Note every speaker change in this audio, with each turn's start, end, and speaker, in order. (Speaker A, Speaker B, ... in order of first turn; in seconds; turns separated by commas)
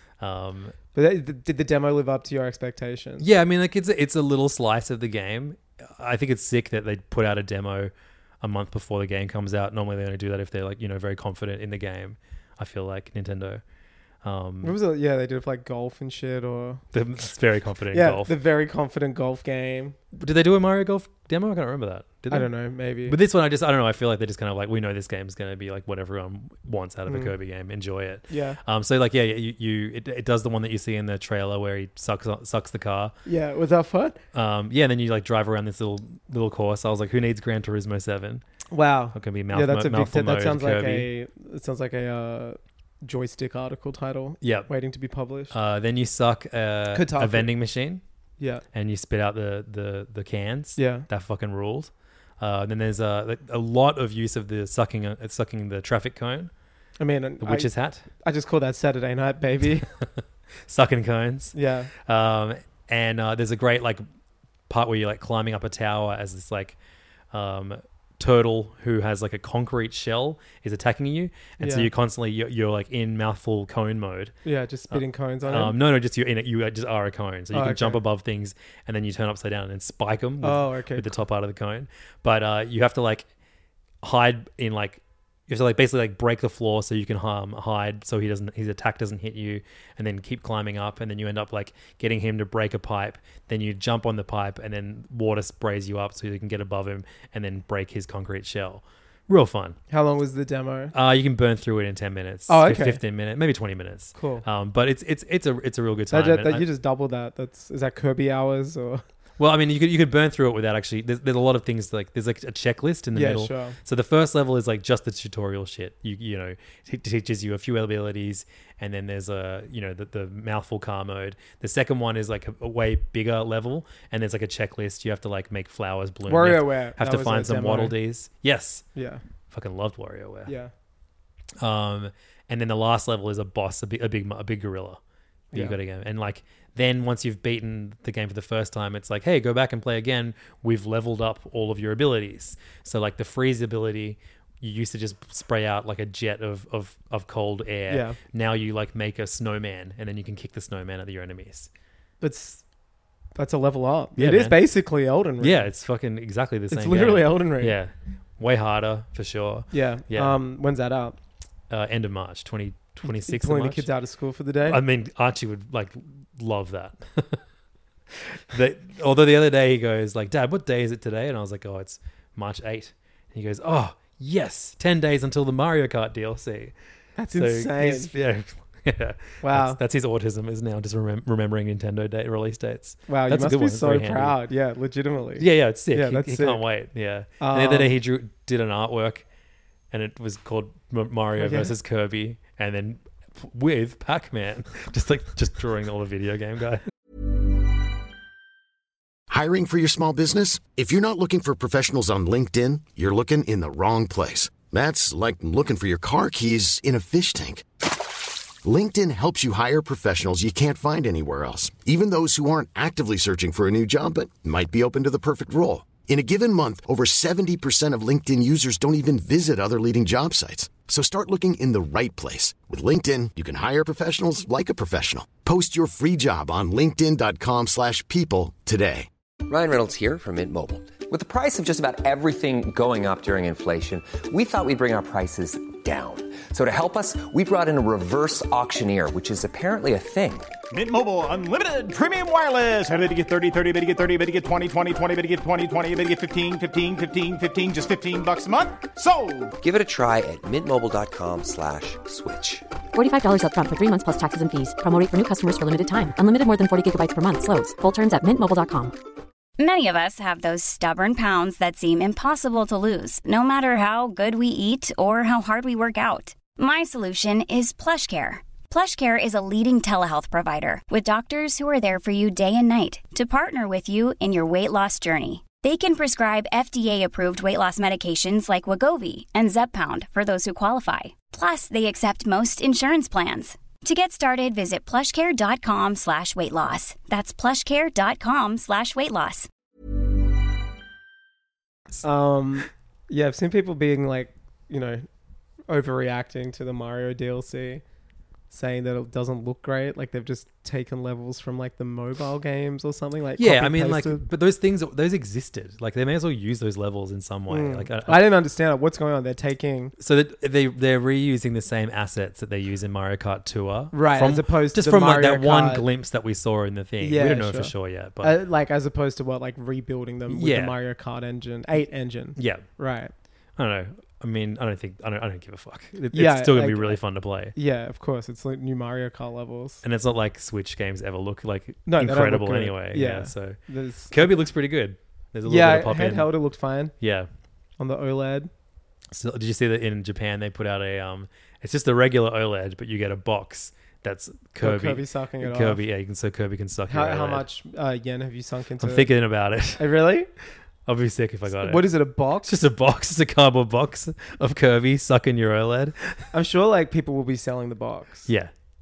Speaker A: 0.2-0.8, Speaker B: 0.9-3.2, Speaker A: 3.2-13.6, Speaker A: 14.2-14.8, Speaker B: 14.6-16.8, Speaker A: 16.9-18.3, Speaker B: 17.9-20.0, Speaker A: 20.1-22.5, Speaker B: 22.3-23.1, Speaker A: 23.0-33.1, Speaker B: 27.1-27.3, Speaker B: 28.3-28.6, Speaker B: 33.2-34.2, Speaker A: 34.3-38.4, Speaker B: 38.7-45.5, Speaker A: 39.1-41.1, Speaker A: 44.4-44.7, Speaker A: 45.5-48.0, Speaker B: 46.9-47.5, Speaker B: 48.4-48.6, Speaker A: 48.7-56.5, Speaker B: 50.8-51.1, Speaker B: 57.0-59.9, Speaker A: 57.4-58.0, Speaker A: 60.6-64.0, Speaker B: 61.5-61.9, Speaker A: 64.7-66.8, Speaker A: 67.3-74.3, Speaker B: 71.6-71.9, Speaker B: 74.4-75.8, Speaker A: 74.9-83.3, Speaker B: 77.5-78.0, Speaker B: 80.4-81.2, Speaker A: 84.0-99.8, Speaker B: 99.9-100.9, Speaker A: 100.9-106.7, Speaker B: 102.5-103.0, Speaker B: 104.1-104.4, Speaker B: 106.1-109.0, Speaker A: 109.4-128.8, Speaker B: 113.1-113.8, Speaker B: 126.2-128.0, Speaker B: 128.9-129.2, Speaker A: 129.5-130.5, Speaker B: 130.4-130.7, Speaker A: 131.6-135.0, Speaker B: 135.5-135.8, Speaker A: 135.5-151.7, Speaker B: 147.9-148.2, Speaker B: 152.2-152.6, Speaker B: 153.3-155.7, Speaker A: 154.2-154.6, Speaker A: 155.4-160.3, Speaker B: 156.7-157.8, Speaker B: 159.7-161.2, Speaker A: 161.7-163.9, Speaker B: 163.0-164.8, Speaker A: 164.6-167.4, Speaker A: 168.1-176.7, Speaker B: 177.2-178.1, Speaker A: 177.3-184.4, Speaker B: 179.4-179.8, Speaker B: 183.1-186.6, Speaker A: 185.4-189.2, Speaker B: 187.4-187.9, Speaker A: 189.9-196.8, Speaker B: 191.4-191.7, Speaker C: 199.3-207.7, Speaker C: 208.6-229.1, Speaker D: 229.4-240.5, Speaker E: 240.7-249.6, Speaker D: 249.6-252.7, Speaker F: 252.9-258.9, Speaker G: 259.6-289.5, Speaker B: 292.0-295.1, Speaker B: 295.7-297.8, Speaker B: 298.5-304.2, Speaker A: 303.4-308.3, Speaker B: 307.5-309.9, Speaker A: 310.0-318.3, Speaker B: 313.9-315.9, Speaker B: 317.0-323.1, Speaker A: 320.3-320.8, Speaker A: 322.4-322.6, Speaker A: 323.6-327.6, Speaker B: 326.1-327.0, Speaker B: 327.5-329.8, Speaker A: 329.8-336.3, Speaker B: 331.9-334.4, Speaker B: 335.4-336.9, Speaker A: 337.0-337.3, Speaker B: 337.8-338.5, Speaker A: 339.1-347.5, Speaker B: 344.6-345.8, Speaker B: 346.9-349.1, Speaker A: 348.8-349.9, Speaker B: 349.8-350.3, Speaker A: 350.9-351.9, Speaker B: 351.6-352.5, Speaker A: 352.4-356.2, Speaker B: 356.3-358.3, Speaker A: 358.3-358.5